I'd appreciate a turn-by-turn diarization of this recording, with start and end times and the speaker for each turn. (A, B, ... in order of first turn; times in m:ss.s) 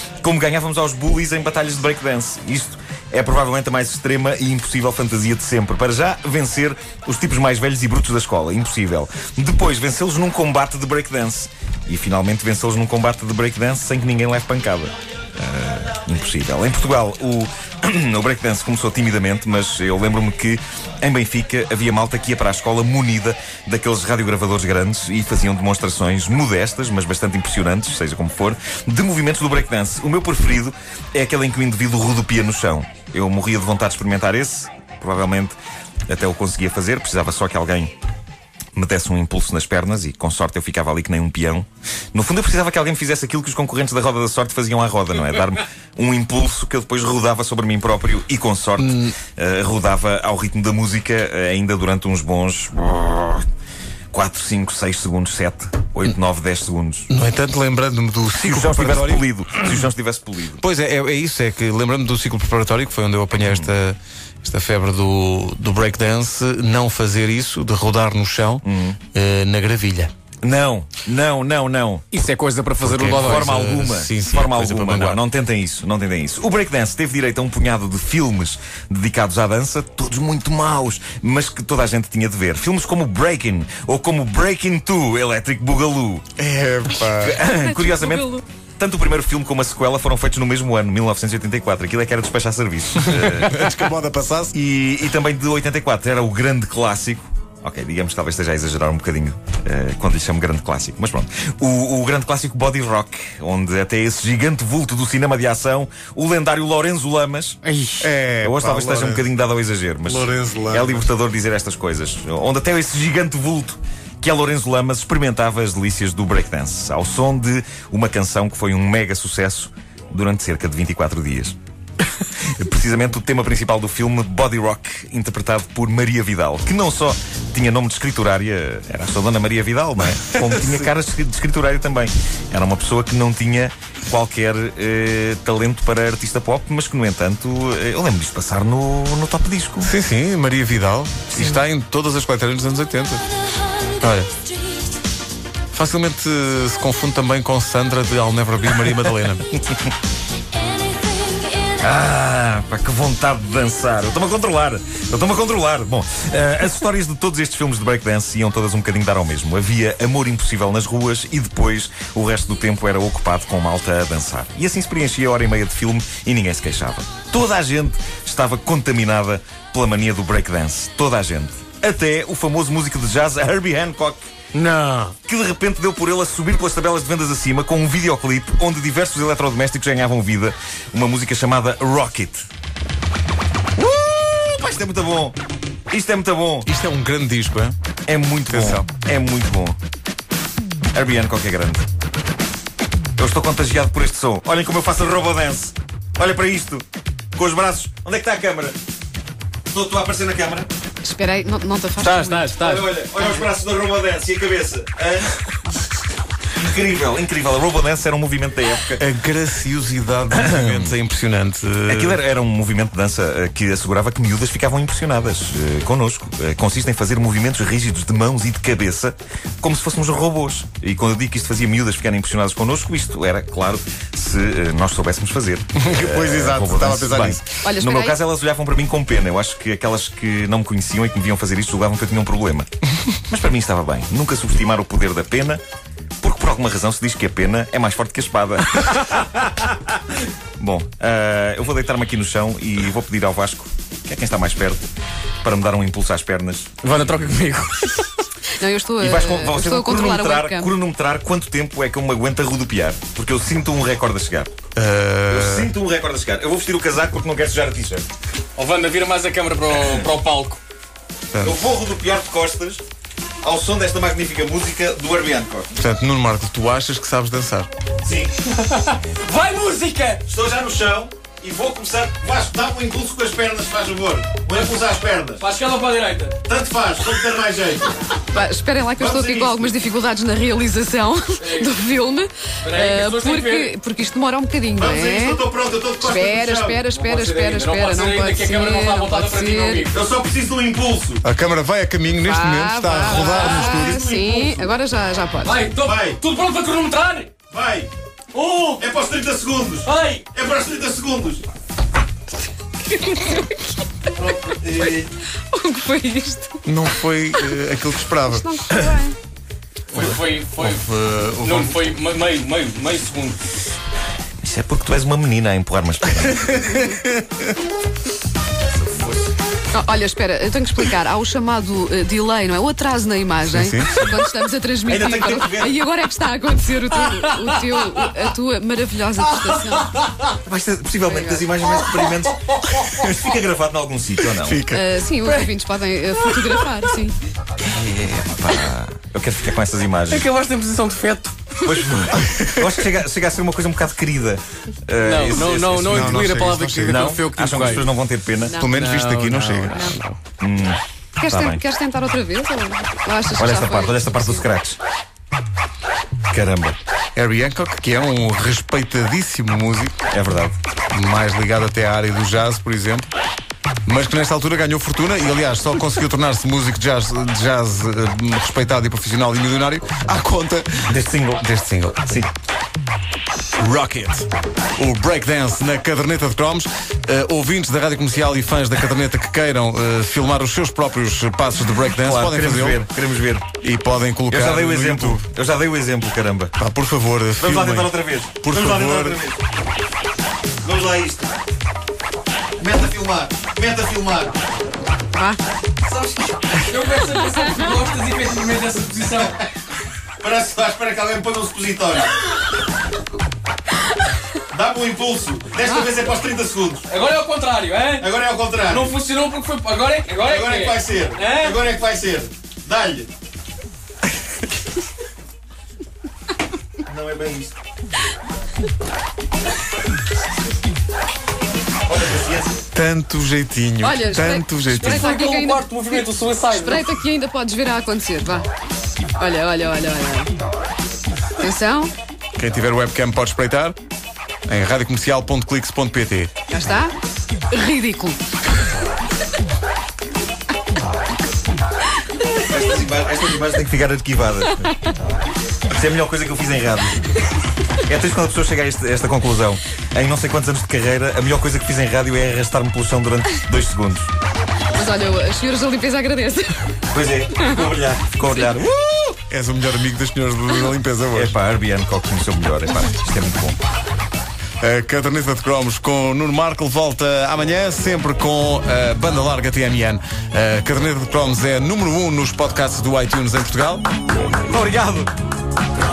0:00.2-0:35.6 A
0:36.1-0:37.9 A
0:38.7-0:53.4 A
0:48.8-0:49.1 B
0:54.1-0:57.1 A
0:57.1-0:59.8 B
0:58.4-1:00.6 A
1:00.6-1:10.1 B
1:03.4-1:03.7 A
1:08.6-1:09.0 A
1:10.4-1:12.0 A
1:12.1-1:13.7 C
1:12.8-1:26.2 A
1:12.8-1:15.2 B
1:26.4-1:27.4 B
1:27.0-1:33.8 A
1:33.0-1:34.5 B
1:34.5-1:47.6 A
1:47.6-1:48.0 C
1:48.0-1:49.3 B
1:48.4-2:01.6 A
1:50.0-1:51.0 B
2:02.4-2:19.9 A
2:19.8-2:23.2 B
2:24.0-2:24.3 B
2:25.7-2:29.4 B
2:31.7-2:54.2 A
2:54.5-2:55.1 C
2:55.2-3:02.5 A
3:03.8-3:05.4 A
3:05.9-3:06.7 A
3:06.6-3:07.7 B
3:08.1-3:09.8 A
3:08.5-3:08.9 B
3:10.9-3:11.8 A
3:13.2-3:18.8 A
3:19.7-3:20.7 A
3:21.0-3:23.5 D
3:22.0-3:22.9 C
3:22.5-3:25.7 A
3:26.5-3:29.0 A
3:29.0-3:32.1 B
3:30.3-3:30.9 A
3:31.9-3:55.6 A
3:45.8-3:47.4 B
3:47.6-3:48.1 D
3:56.2-3:59.3 A
4:00.6-4:04.9 A
4:05.4-4:06.7 A
4:06.8-4:08.1 C
4:08.5-4:10.7 D
4:09.0-4:14.5 A
4:14.8-4:15.7 B
4:15.3-4:18.0 A
4:18.6-4:20.6 C
4:19.7-4:20.1 A
4:21.3-4:21.6 B
4:21.4-4:22.8 A
4:23.4-4:25.7 A
4:25.8-4:27.7 B
4:28.0-4:28.3 A
4:28.5-4:30.2 C
4:30.2-4:35.4 A
4:35.4-4:36.4 C
4:36.4-4:38.1 A
4:38.3-4:45.4 D
4:39.0-4:39.8 A
4:41.4-4:41.8 C
4:42.6-4:43.7 C
4:44.8-4:46.8 A
4:46.0-4:49.9 D
4:46.8-4:49.9 C
4:49.9-4:51.2 A
4:51.2-4:54.0 B
4:52.2-4:55.6 D
4:53.0-4:53.9 C
4:53.5-4:54.7 A
4:55.4-4:57.3 C
4:55.8-4:56.2 A
4:57.5-4:57.9 A
4:58.3-4:58.8 C
4:58.8-5:01.4 A
4:59.8-5:00.3 C
5:02.9-5:03.8 D
5:04.2-5:04.9 C
5:04.5-5:06.6 D
5:04.6-5:05.1 A
5:06.6-5:08.5 B
5:08.2-5:09.2 D
5:09.9-5:10.9 C
5:09.9-5:11.8 B
5:11.4-5:13.4 C
5:14.4-5:16.8 A
5:16.2-5:17.5 B
5:19.7-5:30.0 D
5:23.5-5:24.1 B
5:24.8-5:25.7 A
5:27.2-5:28.1 C
5:29.6-5:30.1 C
5:30.4-5:34.6 A
5:31.1-5:31.4 D
5:34.4-5:34.9 B
5:34.7-5:37.2 D
5:35.2-5:35.5 C
5:36.3-5:36.6 C
5:37.6-5:40.3 A
5:40.1-5:41.8 C
5:41.6-5:46.3 A
5:42.2-5:42.5 B
5:45.0-5:47.9 C
5:45.8-5:47.1 B
5:46.8-5:48.6 A
5:48.4-5:48.7 D
5:48.6-5:49.9 B
5:48.6-5:50.2 C
5:49.7-5:50.0 D
5:50.4-5:51.6 A
5:51.2-5:54.4 D
5:53.3-5:54.8 A
5:56.3-5:56.8 A
5:57.2-6:00.0 B
6:00.1-6:00.6 A
6:00.9-6:03.1 B
6:03.8-6:12.2 B
6:10.8-6:11.4 A
6:13.6-6:22.8 B
6:21.9-6:23.5 A
6:23.6-6:25.3 B
6:24.3-6:26.5 A
6:26.6-6:29.2 B
6:27.4-6:29.4 A
6:30.6-6:31.3 A
6:32.6-6:34.4 A
6:35.1-6:35.4 D
6:36.5-6:39.4 C
6:40.2-6:42.1 A
6:44.5-6:46.9 A
6:45.6-6:45.9 D
6:46.9-6:48.1 C
6:48.0-6:48.9 A
6:48.6-6:51.6 C
6:50.2-6:53.1 A
6:56.8-6:57.6 A
7:01.9-7:02.6 A
7:02.7-7:05.0 B
7:03.8-7:08.5 D
7:04.8-7:07.0 C
7:09.2-7:10.3 D
7:11.4-7:11.9 D
7:12.4-7:13.8 B
7:14.4-7:16.3 B
7:16.5-7:16.9 D
7:17.5-7:18.2 D
7:22.3-7:24.7 A
7:25.7-7:27.2 A
7:27.8-7:34.1 A
7:34.7-7:36.7 D
7:36.9-7:39.2 A
7:39.2-7:41.3 B
7:41.1-7:43.6 A
7:44.6-7:53.8 B
7:54.5-7:55.1 A